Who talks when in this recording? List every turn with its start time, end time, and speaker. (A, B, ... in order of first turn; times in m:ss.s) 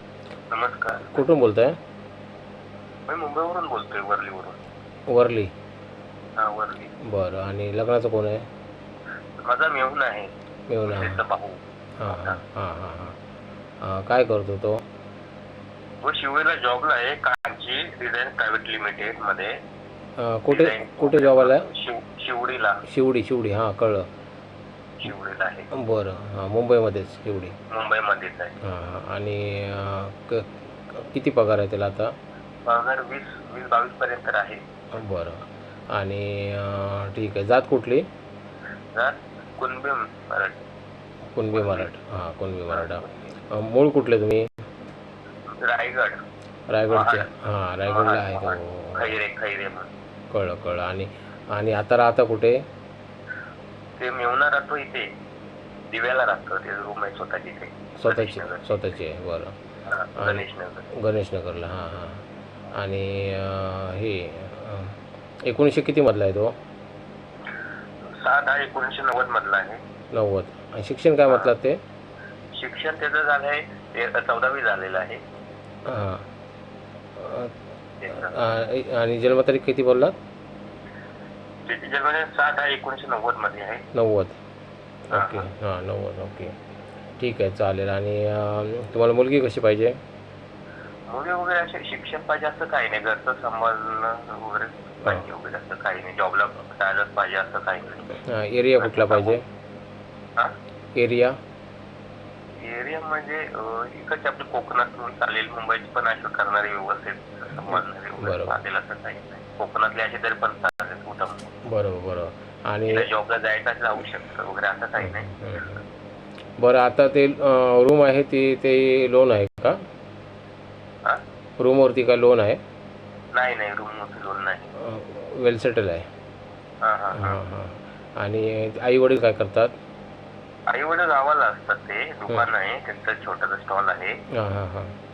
0:00.5-0:01.2 A
0:01.0-0:01.8 B
0:03.1-0:04.6 A
0:05.1-0:05.5 B
0:06.4-0:06.9 A
0:07.0-0:08.4 B
0:09.4-0:10.3 A
0:10.7-0:11.2 B
0:10.9-0:12.4 A
0:12.0-0:13.2 B
0:13.8-0:14.8 B
0:16.0-0:19.5 A
0:20.2-0:21.7 B
0:20.5-0:22.8 A
0:22.8-0:24.1 B
0:25.0-0:25.7 A
0:25.7-0:27.6 B
0:27.7-0:28.5 A
0:28.6-0:32.2 B
0:32.7-0:34.6 A
0:34.9-0:38.1 B
0:39.0-0:40.6 A
0:41.3-0:44.5 B
0:41.5-0:41.9 A
0:42.7-0:43.1 A
0:45.6-0:46.2 A
0:46.7-0:49.1 B
0:46.9-0:47.3 A
0:47.9-0:49.9 A
0:50.3-0:52.6 B
0:54.0-0:55.1 A
0:55.9-0:58.8 A
0:58.0-0:59.6 B
0:59.9-1:00.9 A
1:00.2-1:00.4 B
1:01.0-1:06.5 B
1:08.2-1:09.8 A
1:10.1-1:11.8 B
1:12.6-1:15.2 A
1:15.9-1:16.3 B
1:17.2-1:17.6 B
1:18.0-1:18.4 A
1:18.1-1:20.2 B
1:21.7-1:23.9 A
1:24.0-1:24.4 B
1:25.1-1:26.6 B
1:25.1-1:25.5 A
1:27.2-1:30.0 B
1:31.1-1:38.1 A
1:38.2-1:39.5 B
1:38.8-1:39.4 A
1:41.0-1:41.4 B
1:42.6-1:51.5 A
1:47.7-1:48.6 B
1:51.7-1:53.1 B
1:52.9-1:55.3 A
1:55.0-1:55.8 B
1:56.6-1:59.8 B
2:01.6-2:02.6 B
2:03.4-2:04.7 A
2:04.8-2:06.1 B
2:06.8-2:07.4 A
2:07.1-2:09.7 B
2:10.7-2:14.2 A
2:14.3-2:14.9 B